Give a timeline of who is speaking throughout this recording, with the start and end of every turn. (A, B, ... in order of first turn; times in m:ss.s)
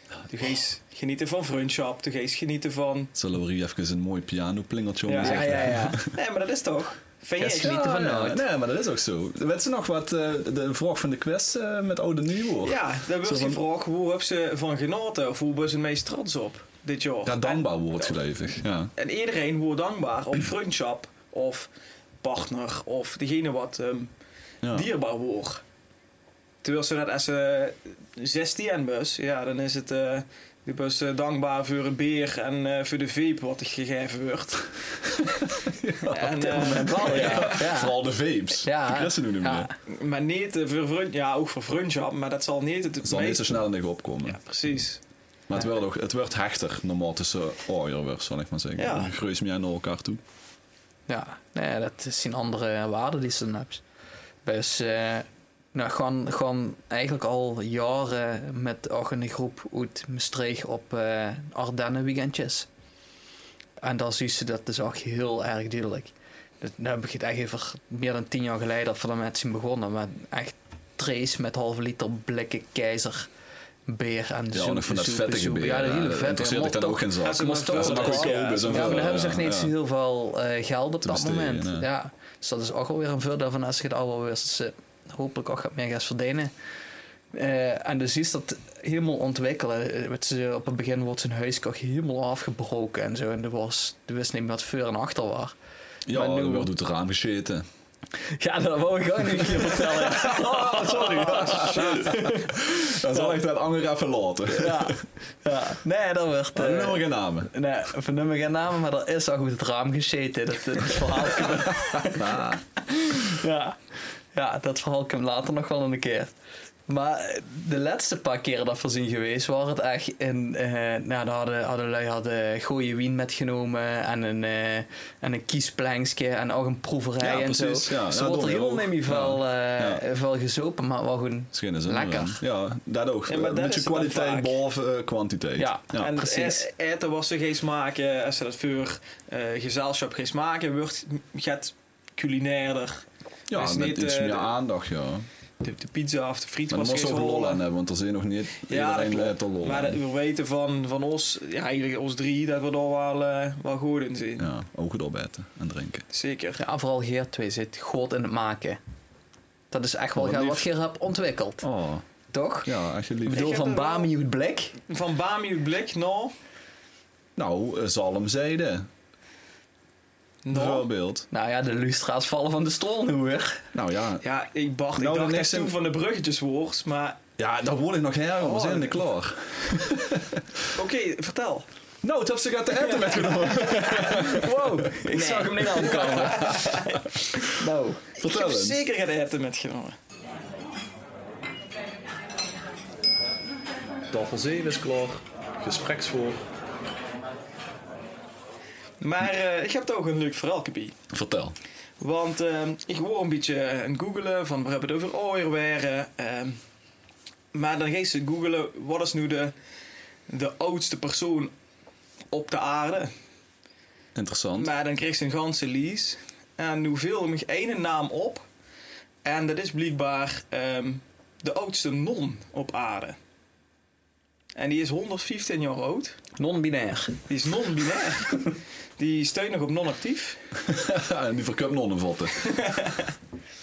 0:00.3-0:03.1 A
0:03.2-0:06.1 B
0:05.1-0:07.9 A
0:05.2-0:06.0 C
0:07.4-0:08.4 C
0:07.4-0:13.6 B
0:12.6-0:18.2 A
0:17.2-0:18.9 B
0:19.0-0:21.7 A
0:22.2-0:24.1 A
0:24.6-0:24.9 B
0:24.7-0:25.6 A
0:26.6-0:35.0 A
0:35.4-0:39.7 B
0:36.0-0:37.6 A
0:36.6-0:38.0 C
0:38.6-0:39.7 C
0:39.9-0:43.6 A
0:43.0-0:44.4 B
0:44.2-0:45.0 A
0:45.5-0:50.2 B
0:48.8-0:49.1 A
0:51.1-0:53.8 C
0:54.4-1:02.7 C
1:03.8-1:13.3 C
1:13.9-1:26.5 C
1:14.5-1:19.7 B
1:17.2-1:19.2 A
1:21.0-1:21.9 B
1:27.3-1:35.6 C
1:36.1-1:37.6 B
1:36.1-1:36.7 C
1:38.2-1:43.4 C
1:39.5-1:45.0 B
1:44.5-1:53.8 C
1:46.5-1:47.5 B
1:51.5-1:52.6 B
1:54.3-1:56.3 C
1:56.9-2:12.4 C
2:07.2-2:10.0 B
2:11.5-2:16.1 B
2:13.3-2:14.6 A
2:15.6-2:16.7 C
2:16.0-2:24.5 A
2:23.5-2:25.3 B
2:25.6-2:27.6 A
2:26.7-2:30.0 B
2:28.7-2:34.5 A
2:34.4-2:36.1 B
2:36.1-2:36.6 A
2:36.6-2:38.8 C
2:39.7-2:41.6 C
2:40.2-2:40.7 B
2:41.6-2:42.0 B
2:42.3-2:42.7 C
2:42.6-2:43.4 B
2:43.2-2:44.8 C
2:43.3-2:44.1 A
2:44.9-2:46.3 A
2:47.4-2:48.9 B
2:50.4-2:50.9 A
2:50.5-2:51.3 B
2:51.3-2:53.7 C
2:53.7-2:54.2 B
2:54.2-2:57.2 A
2:55.0-2:55.8 B
2:57.4-3:00.6 B
2:58.4-2:59.0 A
3:00.7-3:01.7 A
3:02.0-3:04.9 B
3:02.8-3:04.0 A
3:03.8-3:06.9 C
3:05.1-3:07.1 A
3:05.8-3:07.4 B
3:07.4-3:08.0 C
3:08.2-3:08.8 B
3:08.2-3:10.0 A
3:14.1-3:16.4 B
3:19.0-3:21.0 A
3:21.1-3:21.6 B
3:22.0-3:26.6 A
3:27.5-3:29.5 A
3:30.3-3:31.5 A
3:32.3-3:33.1 A
3:34.2-3:34.7 B
3:34.6-3:38.5 A
3:39.2-3:43.2 A
3:44.6-3:46.2 A
3:46.4-3:47.2 C
3:47.3-3:50.4 A
3:50.6-3:52.6 B
3:52.4-3:53.1 A